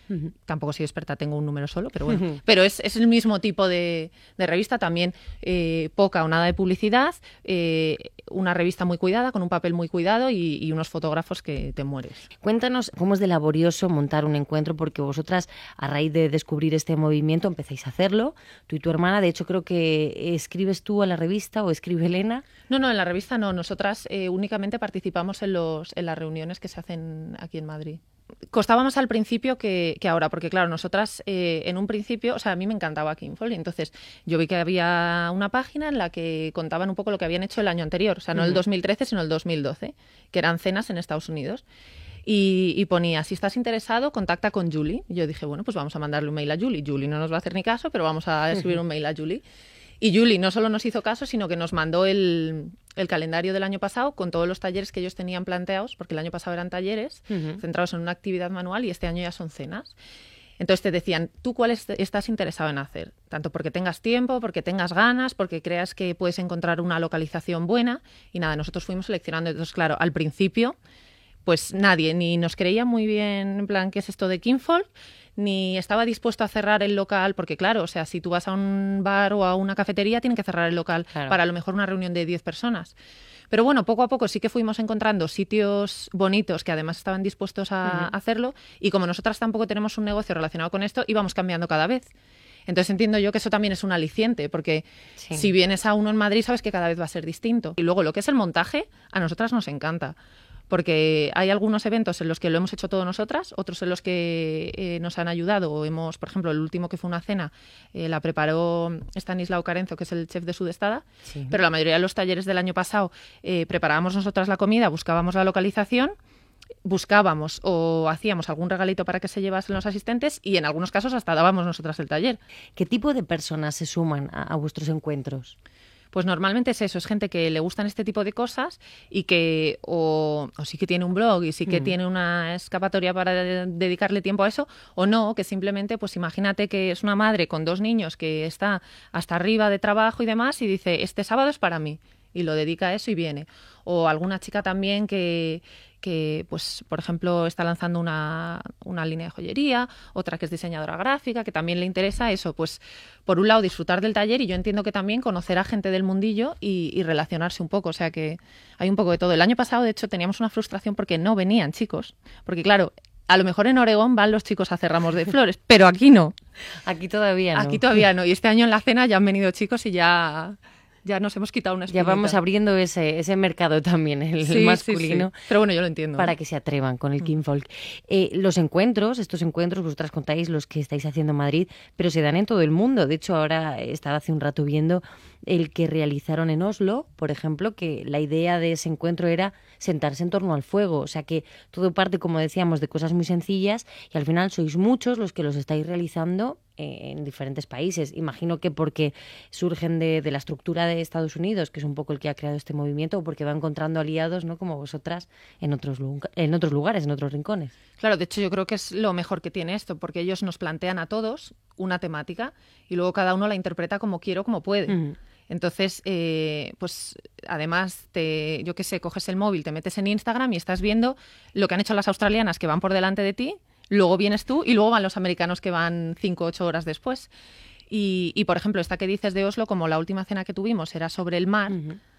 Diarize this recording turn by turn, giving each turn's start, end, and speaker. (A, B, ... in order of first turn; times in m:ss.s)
0:00.4-0:12.3 A
0:02.1-0:02.4 B
0:12.4-0:22.4 B
0:22.7-0:41.6 A
0:38.4-0:38.6 B
0:42.3-0:49.4 A
0:50.0-1:00.0 A
0:57.3-0:57.6 B
1:00.6-1:10.8 A
1:11.4-1:23.0 A
1:21.1-1:21.4 B
1:23.5-1:32.1 A
1:27.8-1:28.1 B
1:32.7-1:40.1 A
1:35.2-1:35.5 B
1:40.7-1:56.1 A
1:51.3-1:51.6 B
1:56.8-2:02.4 A
2:02.8-2:05.6 B
2:06.1-2:46.3 A
2:11.7-2:11.9 B
2:46.8-2:47.8 B
2:47.6-2:52.4 A
2:51.9-2:55.3 B
2:54.4-2:56.3 A
2:56.2-3:27.7 B
3:28.0-3:35.0 A
3:34.9-3:35.2 B
3:35.5-3:47.3 A
3:47.9-3:51.8 A
3:51.7-3:52.0 B